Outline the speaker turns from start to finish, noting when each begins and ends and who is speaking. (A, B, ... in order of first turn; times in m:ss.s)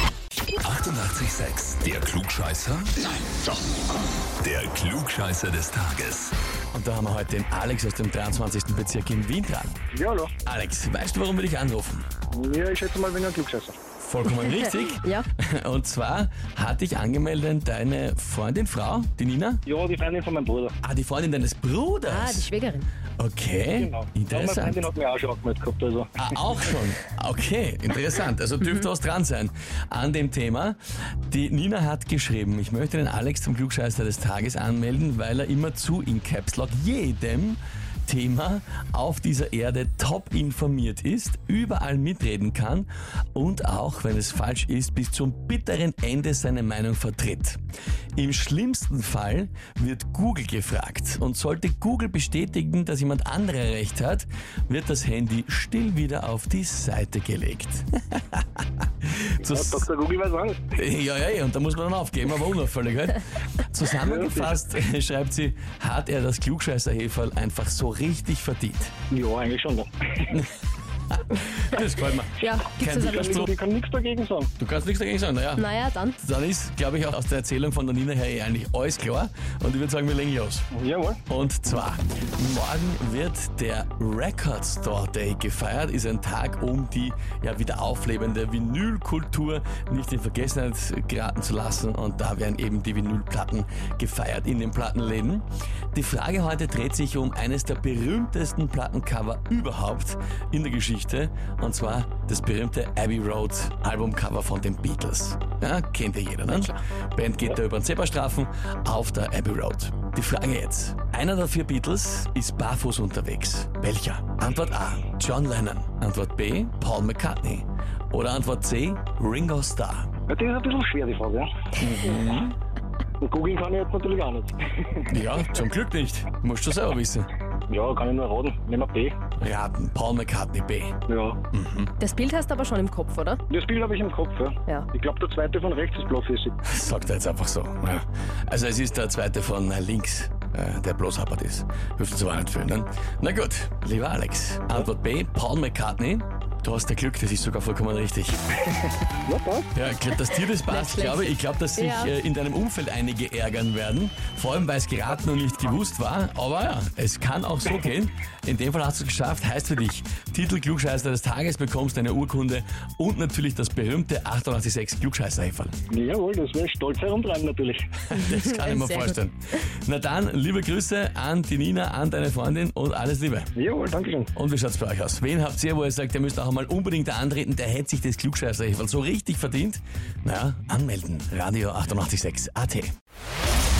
0:00.6-0:03.0 A
0:04.4-0:06.3 A
0:06.7-0:09.8 B
0:09.9-0:10.3 C
0:10.4-0:12.1 B
0:12.3-0:13.8 C
0:14.0-0:19.6 B
0:14.4-0:15.3 D
0:19.7-0:20.8 C
0:20.8-0:22.5 B
0:22.1-0:22.9 D
0:23.2-0:24.8 B
0:23.8-0:26.3 C
0:26.2-0:47.6 B
0:48.2-0:59.8 B
0:59.4-1:00.6 C
1:00.7-1:08.9 B
1:04.0-1:04.6 C
1:09.1-1:10.3 C
1:11.1-1:13.5 B
1:12.4-1:13.4 D
1:13.0-1:14.5 C
1:14.6-1:20.7 B
1:15.6-1:16.2 D
1:20.7-1:21.2 C
1:21.3-2:00.1 B
1:46.5-1:46.8 D
2:00.3-2:01.5 C
2:01.8-2:02.6 B
2:03.2-2:05.1 C
2:05.1-2:07.3 B
2:07.7-2:09.2 C
2:09.4-2:11.0 B
2:11.1-2:11.4 C
2:11.5-2:11.9 B
2:12.0-2:13.4 D
2:13.5-2:16.6 C
2:16.6-2:28.5 B
2:29.3-2:29.7 C
2:29.7-2:45.8 B
2:30.7-2:32.1 D
2:45.9-2:47.9 C
2:48.1-2:53.5 B
2:48.1-2:49.2 D
2:53.6-2:54.3 C
2:54.4-3:02.9 B